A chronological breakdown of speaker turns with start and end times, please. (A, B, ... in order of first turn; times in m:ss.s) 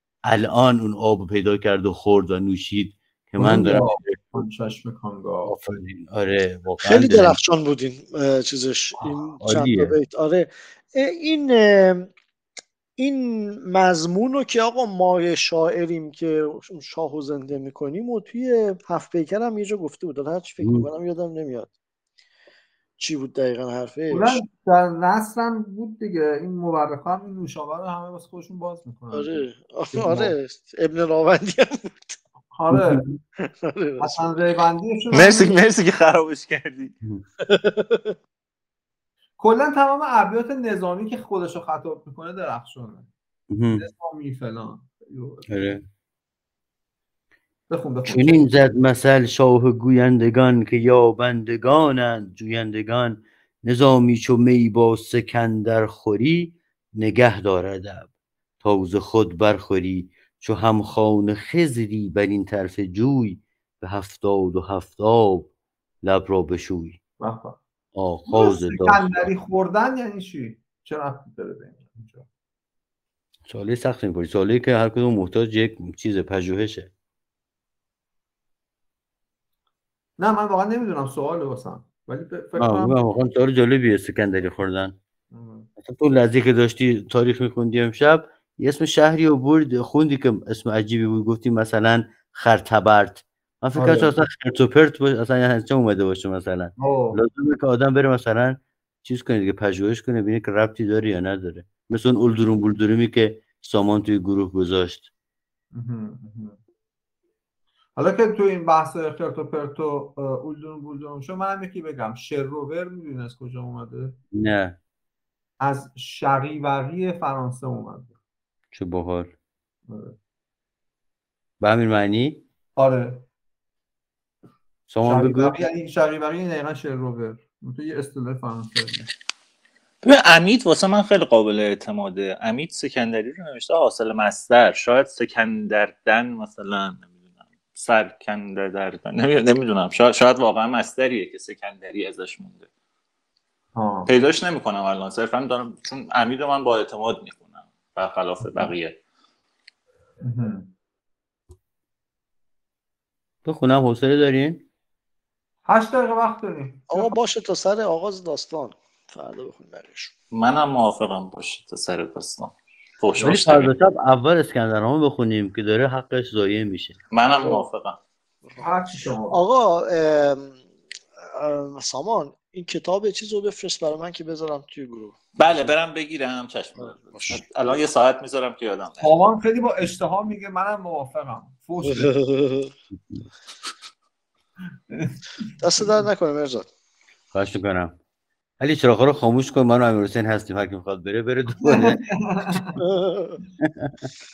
0:00.2-0:04.4 A
0:03.4-0:05.5 B
0:05.4-0:07.4 A
0:06.8-0:12.1 C
0:09.4-0:09.9 A
0:13.0-0:21.7 C
0:20.6-0:20.9 A
0:23.0-0:24.4 C
0:24.1-0:30.3 B
0:29.1-0:32.2 C
0:32.5-0:33.0 B
0:32.7-0:33.2 A
0:33.6-0:34.5 C
0:34.0-0:35.5 B
0:35.1-0:36.9 D
0:37.4-0:38.1 C
0:39.4-0:43.1 B
0:43.5-0:43.9 A
0:43.7-0:45.5 B
0:45.5-0:45.8 A
0:47.7-0:48.5 B
0:48.0-0:58.1 A
0:58.6-1:05.5 A
1:06.0-1:07.0 A
1:07.2-1:07.6 B
1:07.9-1:09.3 A
1:08.3-1:12.2 B
1:13.5-1:16.9 A
1:20.2-1:23.0 B
1:22.6-1:24.9 A
1:25.3-1:25.7 B
1:25.8-1:45.1 A
1:33.7-1:34.1 B
1:36.8-1:37.2 B
1:45.7-1:46.6 B
1:48.0-1:54.2 B
1:54.3-1:54.8 A
1:55.6-1:58.1 B
1:58.7-1:59.3 A
1:59.9-2:00.2 B
2:01.6-2:02.4 A
2:02.8-2:03.2 B
2:04.9-2:05.6 A
2:05.0-2:09.1 B
2:10.0-2:17.1 D
2:17.7-2:22.7 D
2:23.7-2:24.1 B
2:24.1-2:29.0 D
2:30.2-2:30.7 B
2:33.4-2:34.7 A
2:35.6-2:37.2 B
2:36.9-2:40.1 C
2:40.3-2:43.7 D
2:43.2-2:47.0 A
2:47.1-2:48.0 D
2:48.4-2:50.6 C
2:48.6-2:49.4 B
2:51.2-2:55.7 C
2:55.4-2:59.1 D
2:56.8-2:57.4 C
2:59.0-3:02.1 B
3:01.8-3:02.7 C
3:04.9-3:06.0 B
3:05.6-3:06.7 C
3:07.3-3:08.0 A
3:08.6-3:12.0 A
3:11.6-3:12.8 B
3:12.8-3:13.4 C
3:13.6-3:13.9 A